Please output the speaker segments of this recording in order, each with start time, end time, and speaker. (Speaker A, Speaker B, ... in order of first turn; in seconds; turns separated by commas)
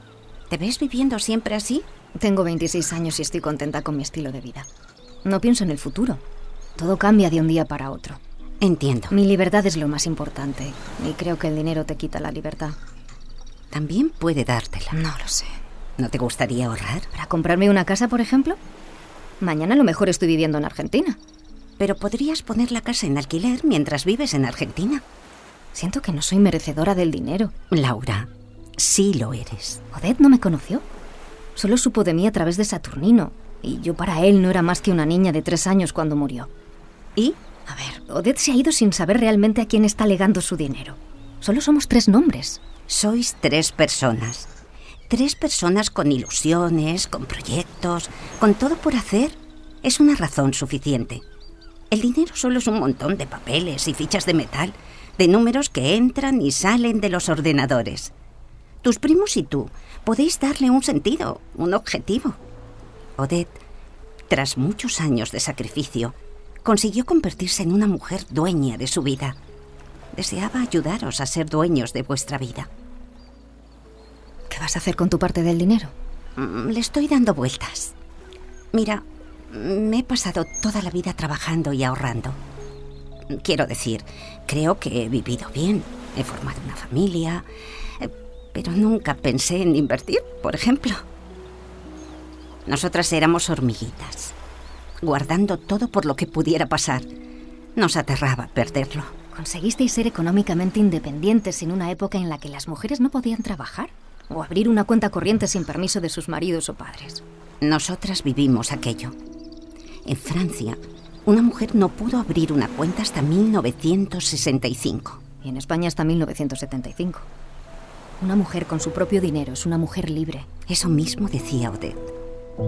Speaker A: 0.5-1.9, Speaker B: 2.2-4.7, Speaker B: 5.2-6.2, Speaker B: 6.8-8.2, Speaker A: 8.6-9.1, Speaker B: 9.1-12.8, Speaker A: 13.7-14.9, Speaker B: 14.9-15.5, Speaker A: 16.0-17.1, Speaker B: 17.1-18.6, Speaker B: 19.4-21.2, Speaker A: 21.8-25.0, Speaker B: 25.7-27.5, Speaker A: 27.7-29.8, Speaker B: 29.9-30.8, Speaker B: 31.5-36.5, Speaker A: 37.2-38.0, Speaker B: 38.1-42.6, Speaker A: 42.9-44.5, Speaker A: 45.1-51.2, Speaker A: 51.9-58.1, Speaker A: 58.8-62.4, Speaker A: 63.2-63.6, Speaker A: 64.3-69.3, Speaker A: 70.1-72.7, Speaker B: 74.5-75.9, Speaker A: 76.4-77.9, Speaker A: 78.7-82.4, Speaker A: 83.3-87.4, Speaker A: 88.0-91.0, Speaker A: 92.7-94.3, Speaker A: 95.0-97.0, Speaker A: 97.8-99.1, Speaker B: 99.3-107.2, Speaker A: 107.6-109.1, Speaker A: 110.0-115.2, Speaker B: 115.4-117.2, Speaker B: 118.2-120.5, Speaker A: 120.7-122.1